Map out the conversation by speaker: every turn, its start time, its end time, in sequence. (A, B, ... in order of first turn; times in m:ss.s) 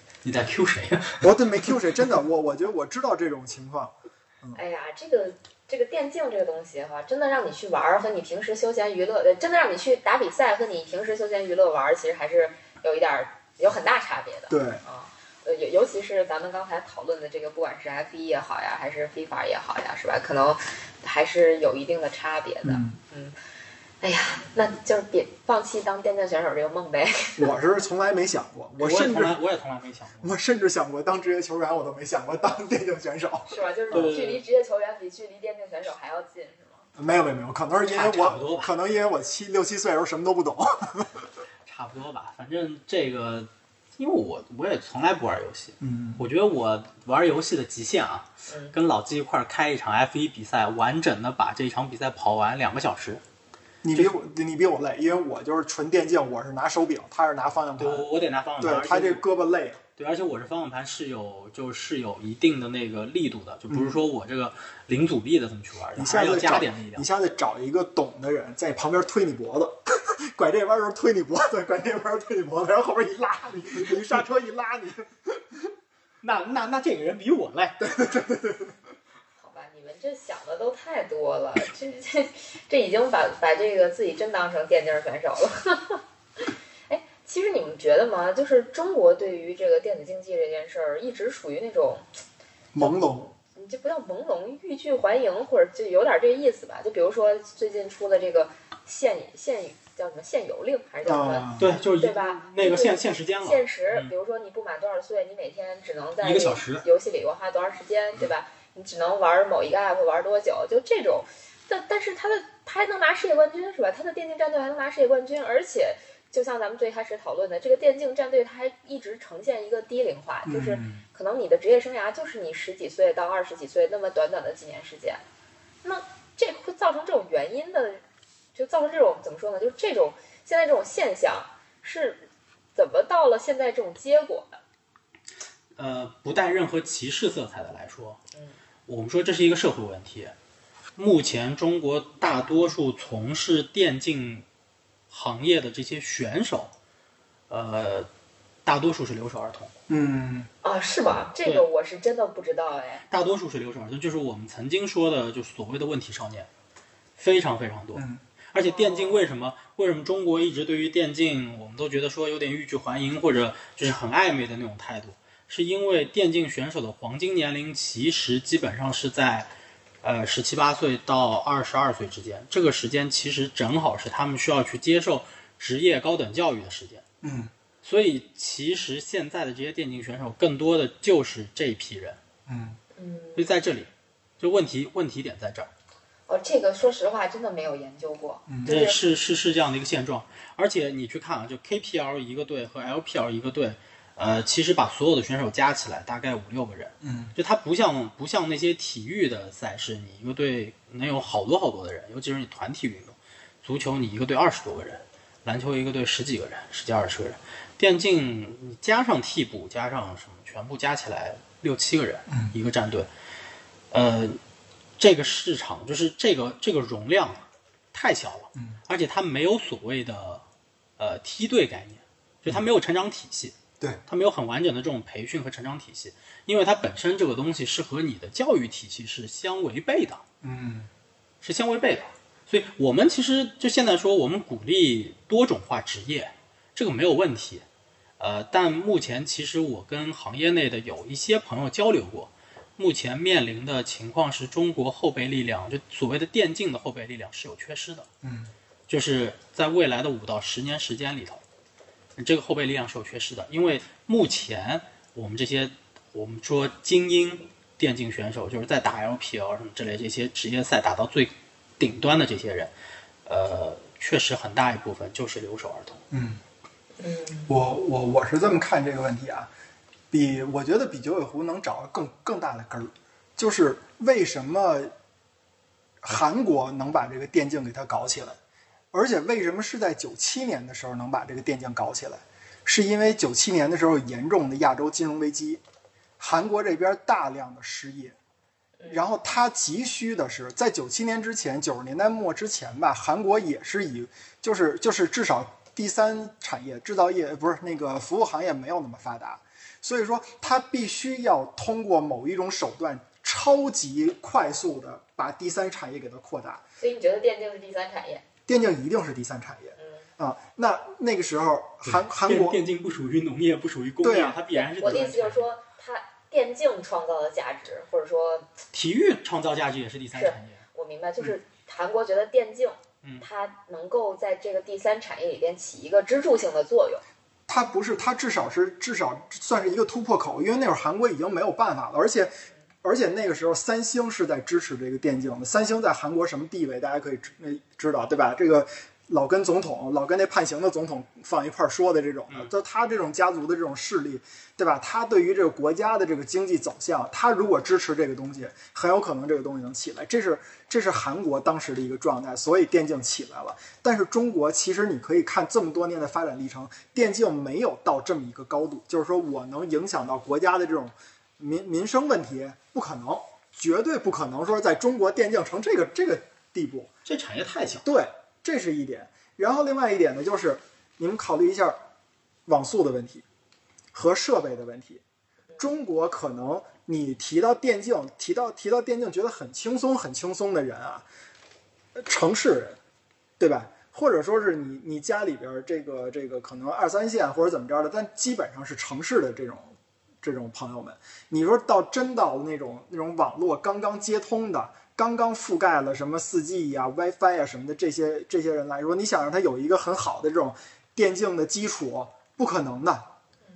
0:00.2-0:01.3 A
0:01.2-0:04.6 B
0:04.5-0:23.4 C
0:14.5-0:14.8 B
0:22.6-0:23.0 B
0:24.0-0:27.5 C
0:27.4-0:29.4 B
0:28.8-0:30.4 A
0:30.2-0:34.2 B
0:33.5-0:36.9 C
0:33.9-0:34.4 A
0:37.0-0:41.2 B
0:37.8-0:38.7 A
0:41.7-0:53.2 A
0:45.8-0:46.2 B
0:48.5-0:48.8 C
0:53.8-0:58.1 B
0:57.8-0:59.2 A
0:58.6-0:59.8 B
1:00.0-1:07.1 A
1:03.7-1:04.0 B
1:06.0-1:15.6 B
1:16.2-1:17.8 A
1:17.8-1:18.8 B
1:19.4-1:26.0 C
1:26.9-1:32.1 C
1:32.7-1:33.3 B
1:33.6-2:05.2 C
1:41.0-1:41.7 B
1:41.6-1:44.1 A
1:46.2-1:46.8 A
2:00.5-2:01.0 B
2:05.8-2:08.0 C
2:08.6-2:14.6 C
2:15.8-2:18.2 A
2:18.9-2:20.3 A
2:21.0-2:24.5 A
2:25.1-2:26.7 A
2:27.5-2:28.1 A
2:28.6-2:29.7 A
2:29.9-2:30.5 B
2:30.6-2:33.0 C
2:33.1-2:36.5 A
2:37.2-2:49.5 A
2:38.0-2:38.2 B
2:38.6-2:39.2 C
2:50.0-2:57.0 A
2:57.2-2:57.5 B
2:57.8-3:02.2 A
3:02.5-3:02.8 B
3:03.0-3:03.5 C
3:03.4-3:03.9 A
3:04.4-3:05.7 A
3:06.3-3:09.0 C
3:08.5-3:08.8 B
3:08.6-3:33.1 A
3:17.0-3:17.3 B
3:33.9-3:34.4 A
3:35.0-3:40.4 A
3:41.0-3:50.2 A
3:50.4-3:50.9 B
3:51.4-3:57.6 A
3:58.2-4:08.1 A
4:08.2-4:08.5 B
4:08.9-4:11.4 A
4:12.2-4:22.7 A
4:23.3-4:26.0 A
4:26.1-4:26.4 B
4:27.0-4:27.6 C
4:27.5-4:29.5 B
4:30.1-4:34.9 B
4:36.0-4:38.4 B
4:38.9-4:45.6 B
4:46.2-4:48.2 B
4:48.8-4:49.1 C
4:48.9-5:06.6 B
5:06.8-5:08.2 C
5:08.5-5:12.6 B
5:09.8-5:10.1 C
5:11.8-5:15.5 A
5:14.0-5:14.4 B
5:14.5-5:18.5 C
5:18.7-5:20.6 A
5:20.1-5:27.0 C
5:27.5-5:32.3 B
5:32.8-6:06.9 B
6:07.1-6:07.8 A
6:07.8-6:11.8 B
6:12.5-6:13.2 B
6:13.9-6:15.0 B
6:15.6-6:21.1 B
6:22.0-6:22.8 B
6:23.4-6:43.1 B